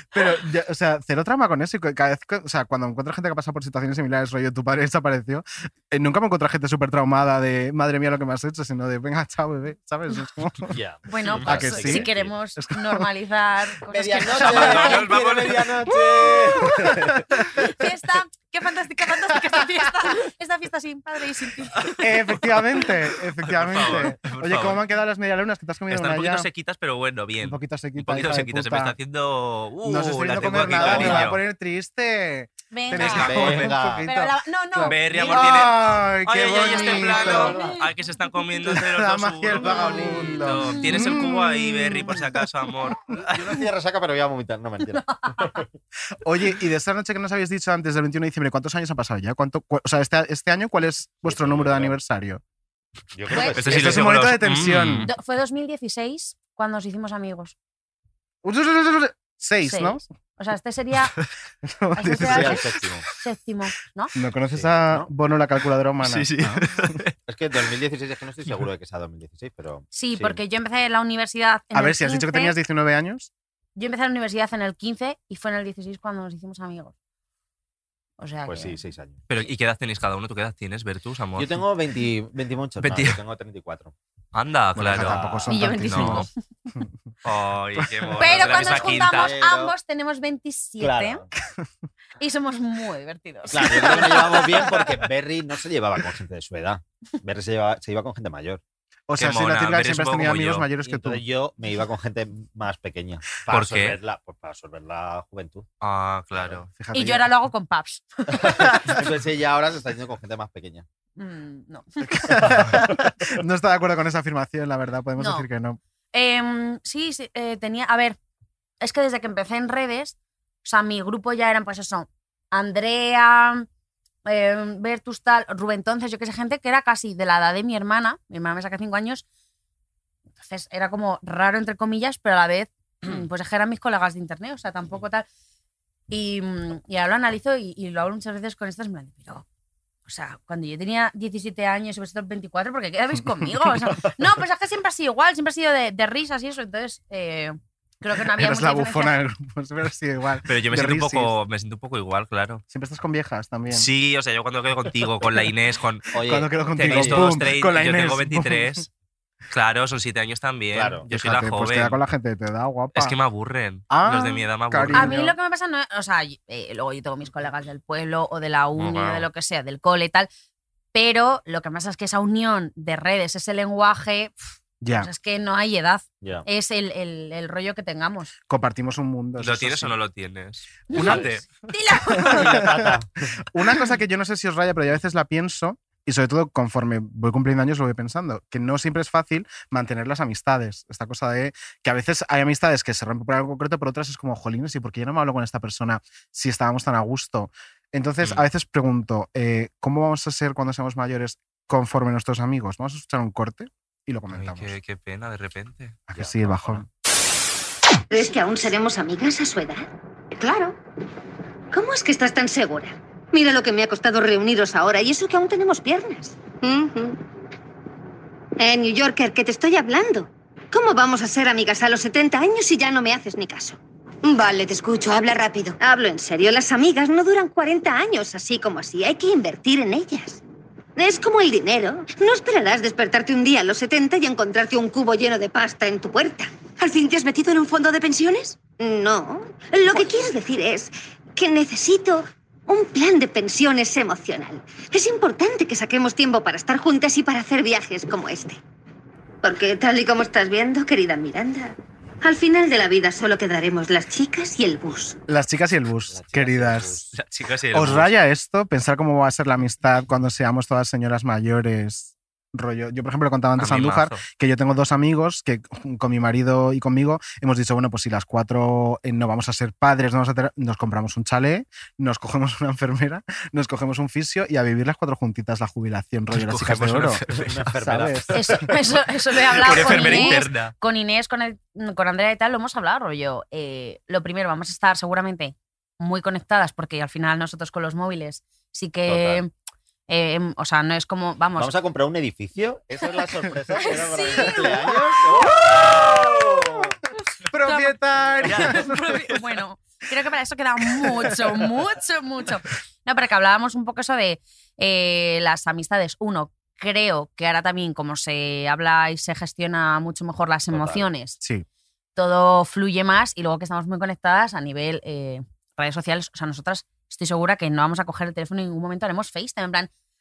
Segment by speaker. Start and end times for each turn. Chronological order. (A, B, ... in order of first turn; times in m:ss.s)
0:00.1-0:10.8 A
0:10.7-0:12.3 B
0:11.1-0:15.1 C
0:11.4-0:13.1 A
0:13.9-0:17.2 B
0:14.4-0:15.8 D
0:15.9-0:16.9 C
0:16.6-0:17.7 A
0:17.6-0:21.9 C
0:21.8-0:24.8 D
0:22.0-0:26.5 A
0:25.9-0:31.4 D
0:27.4-0:29.0 A
0:29.8-0:37.6 A
0:30.4-0:31.3 B
0:32.7-0:35.7 C
0:33.0-0:33.7 D
0:33.1-0:34.1 B
0:34.8-0:43.6 D
0:36.6-0:37.9 C
0:37.3-0:37.8 B
0:38.6-0:42.5 A
0:39.6-0:41.1 C
0:43.1-0:45.7 B
0:44.9-0:45.6 C
0:46.2-0:52.4 A
0:51.3-0:52.0 B
0:53.1-0:54.1 B
0:53.3-0:53.6 C
0:53.6-0:55.1 D
0:53.6-0:55.1 A
0:55.1-0:57.6 C
0:58.4-1:00.1 A
0:59.7-1:01.1 C
1:01.6-1:02.6 A
1:02.0-1:04.1 C
1:02.2-1:03.1 B
1:04.1-1:07.0 A
1:04.5-1:05.1 B
1:06.0-1:07.1 D
1:07.3-1:10.4 B
1:09.9-1:12.6 C
1:11.7-1:13.3 A
1:13.8-1:16.9 C
1:18.2-1:18.8 C
1:18.5-1:19.2 B
1:19.3-1:21.6 D
1:21.4-1:23.9 B
1:22.8-1:23.2 D
1:24.3-1:25.2 D
1:24.8-1:25.7 B
1:24.8-1:26.9 A
1:25.5-1:26.3 C
1:25.8-1:26.3 D
1:27.2-1:29.3 D
1:27.8-1:28.1 A
1:28.2-1:31.2 C
1:28.2-1:29.8 B
1:30.8-1:31.3 B
1:32.2-1:34.6 C
1:33.5-1:38.6 B
1:39.1-1:41.2 A
1:39.2-1:40.7 D
1:40.8-1:45.7 B
1:43.5-1:44.0 D
1:45.8-1:46.7 D
1:46.3-1:46.6 B
1:46.8-1:47.3 A
1:46.9-1:48.7 C
1:48.3-1:50.8 B
1:51.2-1:52.2 C
1:52.2-1:55.8 A
1:52.3-1:52.9 B
1:55.2-1:55.5 C
1:56.1-1:58.2 C
1:58.8-2:03.7 C
2:04.3-2:09.2 C
2:10.4-2:15.3 C
2:16.1-2:19.4 C
2:20.1-2:29.2 C
2:28.3-2:31.4 A
2:30.5-2:32.6 D
2:32.7-2:33.9 A
2:33.7-2:36.1 D
2:36.1-2:37.4 B
2:36.2-2:38.9 A
2:36.7-2:38.9 D
2:39.5-2:42.0 D
2:40.7-2:41.0 B
2:41.1-2:43.2 A
2:43.0-2:45.2 D
2:43.9-2:45.4 A
2:44.9-2:50.3 C
2:48.8-2:49.3 B
2:50.9-2:54.3 C
2:54.8-2:55.1 A
2:55.0-2:58.3 C
2:58.5-3:00.0 A
2:59.4-3:01.4 D
3:00.9-3:02.6 C
3:00.9-3:01.3 A
3:02.1-3:24.8 A
3:02.3-3:03.1 B
3:24.3-3:26.0 D
3:26.1-3:26.9 A
3:26.1-3:26.8 B
3:28.1-3:30.8 E
3:31.7-3:37.2 E
3:38.6-3:50.4 E
3:51.0-4:08.6 E
4:09.4-4:15.2 E
4:15.3-4:17.1 A
4:16.1-4:17.1 B
4:17.1-4:18.1 D
4:17.7-4:37.2 A
4:23.6-4:24.2 D
4:36.3-4:37.8 D
4:37.3-4:38.8 B
4:37.8-4:38.7 A
4:38.3-4:49.5 C
4:39.6-4:40.2 B
4:39.6-4:40.7 D
4:40.0-4:40.3 A
4:49.1-4:49.4 B
4:50.1-4:51.7 C
4:51.6-4:57.0 B
4:53.8-4:56.1 C
4:55.3-4:56.8 A
4:57.5-4:59.3 A
4:57.6-5:11.4 C
4:58.4-4:59.4 D
5:01.0-5:01.5 A
5:10.7-5:11.1 B
5:11.4-5:11.7 A
5:12.2-5:19.9 C